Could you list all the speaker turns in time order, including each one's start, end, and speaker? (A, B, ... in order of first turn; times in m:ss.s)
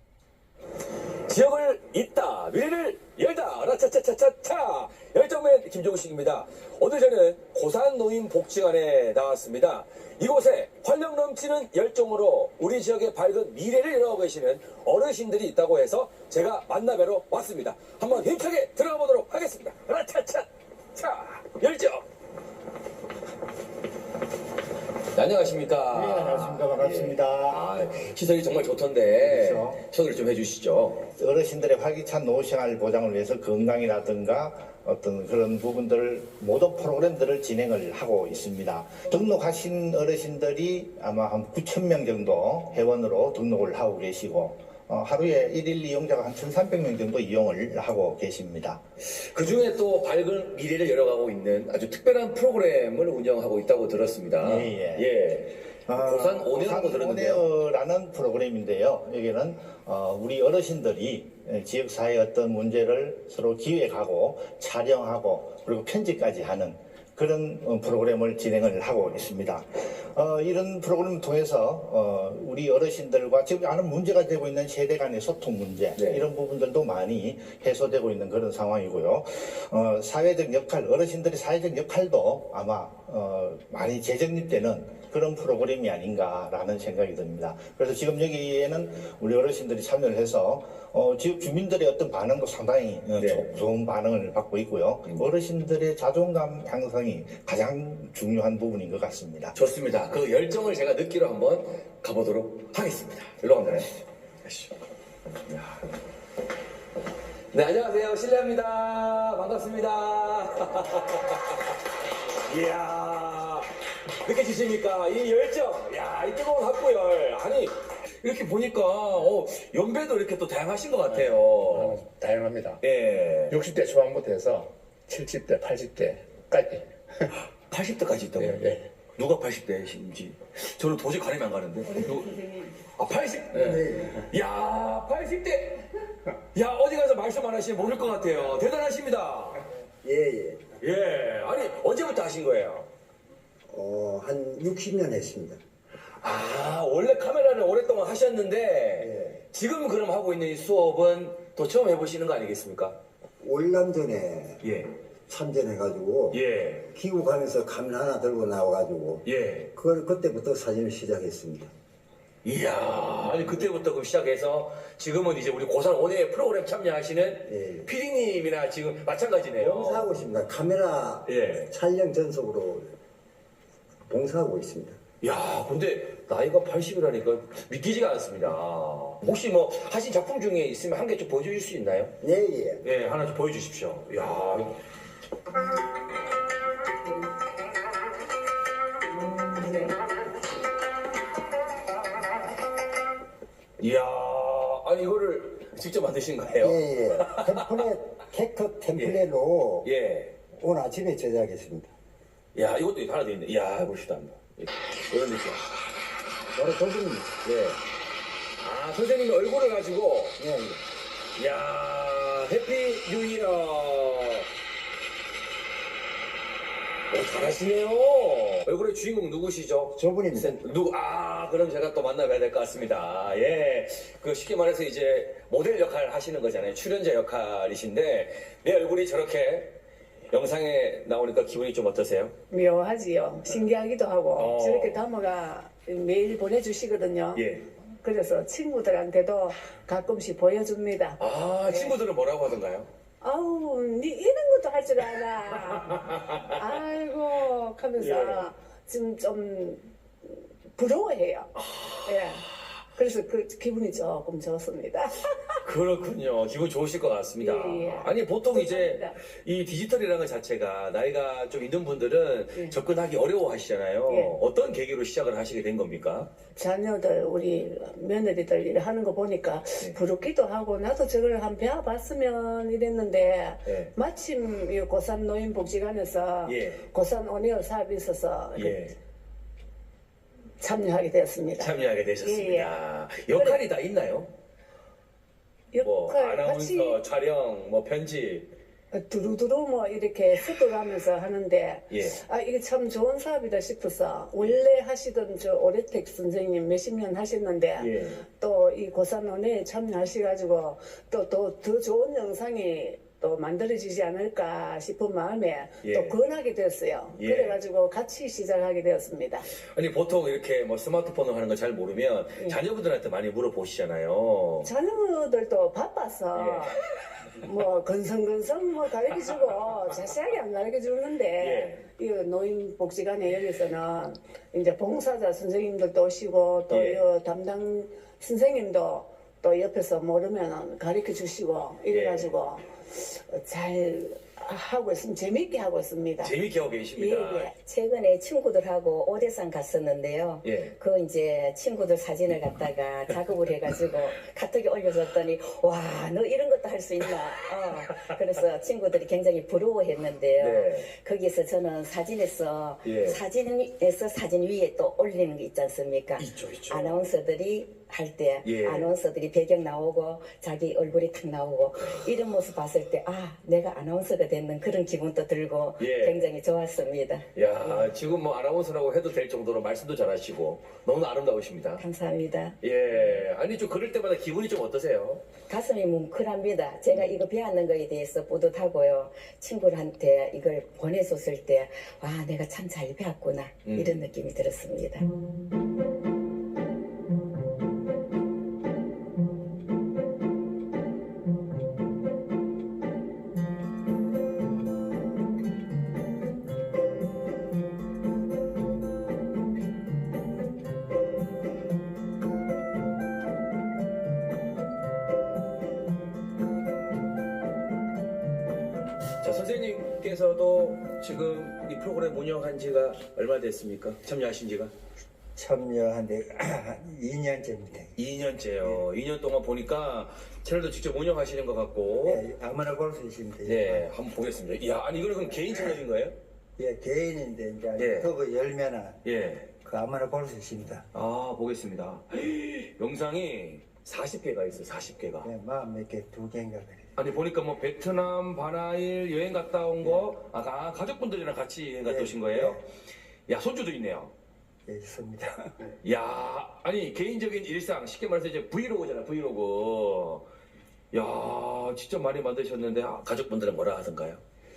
0:01.3-0:22.0 A
0:25.1-0:31.1 A
0:25.9-0:27.7 B
0:29.2-0:29.8 B
0:31.2-0:48.8 B
0:49.0-0:57.5 A
0:54.4-0:55.1 B
0:55.9-1:39.5 B
1:16.0-1:16.2 A
1:33.2-1:33.5 A
1:39.5-1:44.8 A
1:45.5-1:45.9 A
1:47.5-1:51.6 A
1:52.4-2:02.0 A
2:01.1-2:02.8 C
2:02.8-2:03.6 A
2:03.5-2:07.3 C
2:07.7-2:15.9 A
2:08.4-2:08.9 C
2:13.6-2:14.2 D
2:16.5-2:19.6 A
2:20.0-2:20.7 D
2:20.8-2:22.9 A
2:23.7-2:25.6 D
2:26.2-2:33.0 A
2:29.0-2:29.4 D
2:33.4-2:34.6 D
2:34.6-2:34.9 A
2:35.3-2:36.4 D
2:36.3-2:36.9 A
2:36.9-2:41.7 D
2:39.2-2:39.7 A
2:42.4-2:50.2 A
2:47.5-2:47.9 D
2:49.6-2:52.9 D
2:51.2-2:51.7 A
2:54.1-2:55.0 D
2:55.2-3:02.1 A
3:02.2-3:02.8 D
3:02.8-3:04.8 A
3:13.8-3:17.9 A
3:16.6-3:19.9 D
3:18.9-3:19.3 A
3:19.8-3:20.4 A
3:20.5-3:21.9 D
3:22.6-3:25.7 A
3:26.5-3:27.4 D
3:27.4-3:27.8 A
3:28.6-3:30.4 A
3:30.4-3:30.8 D
3:31.4-3:34.5 A
3:37.1-3:49.8 A
3:40.0-3:40.6 D
3:50.3-3:52.4 A
3:52.5-3:57.4 E
3:54.4-3:55.1 A
3:57.4-3:57.7 A
3:58.0-4:02.0 E
4:01.2-4:02.9 A
4:03.2-4:11.5 E
4:05.9-4:06.4 A
4:08.0-4:08.5 A
4:11.7-4:12.0 A
4:12.0-4:12.4 E
4:13.0-4:15.5 E
4:15.6-4:26.3 A
4:17.4-4:19.2 E
4:24.1-4:24.4 E
4:26.6-4:38.9 E
4:33.6-4:33.9 A
4:36.4-4:36.8 A
4:38.6-4:39.0 A
4:40.6-4:42.7 E
4:41.6-4:44.3 A
4:43.3-4:43.6 E
4:45.7-4:47.0 E
4:45.8-4:48.5 A
4:48.9-5:09.5 E
4:51.9-4:52.2 A
4:57.8-4:58.2 A
5:05.8-5:06.2 A
5:07.1-5:07.6 A
5:09.7-5:14.7 A
5:14.6-5:16.8 E
5:16.3-5:16.7 A
5:17.4-5:36.4 E
5:21.4-5:21.8 A
5:26.7-5:27.1 A
5:31.9-5:32.3 A
5:36.2-5:37.5 A
5:37.0-6:07.3 F
5:40.4-5:40.7 A
5:50.4-5:50.9 A
5:52.8-5:53.2 A
5:56.2-5:57.0 A
5:58.4-5:58.9 A
6:05.8-6:06.3 A
6:07.4-6:11.8 A
6:11.8-6:12.6 F
6:12.6-6:15.2 A
6:15.5-6:25.1 F
6:23.6-6:24.0 A
6:49.2-6:54.7 A
6:55.4-6:57.9 D
6:58.0-7:02.2 A
7:02.0-7:03.9 D
7:03.4-7:06.2 A
7:06.6-7:09.0 D
7:07.8-7:08.1 A
7:09.0-7:09.6 A
7:09.6-7:10.8 D
7:10.9-7:15.3 A
7:15.2-7:16.9 D
7:17.0-7:22.6 A
7:21.8-7:22.6 D
7:23.3-7:24.1 A
7:24.7-7:25.7 D
7:25.8-7:30.3 A
7:30.9-7:34.2 A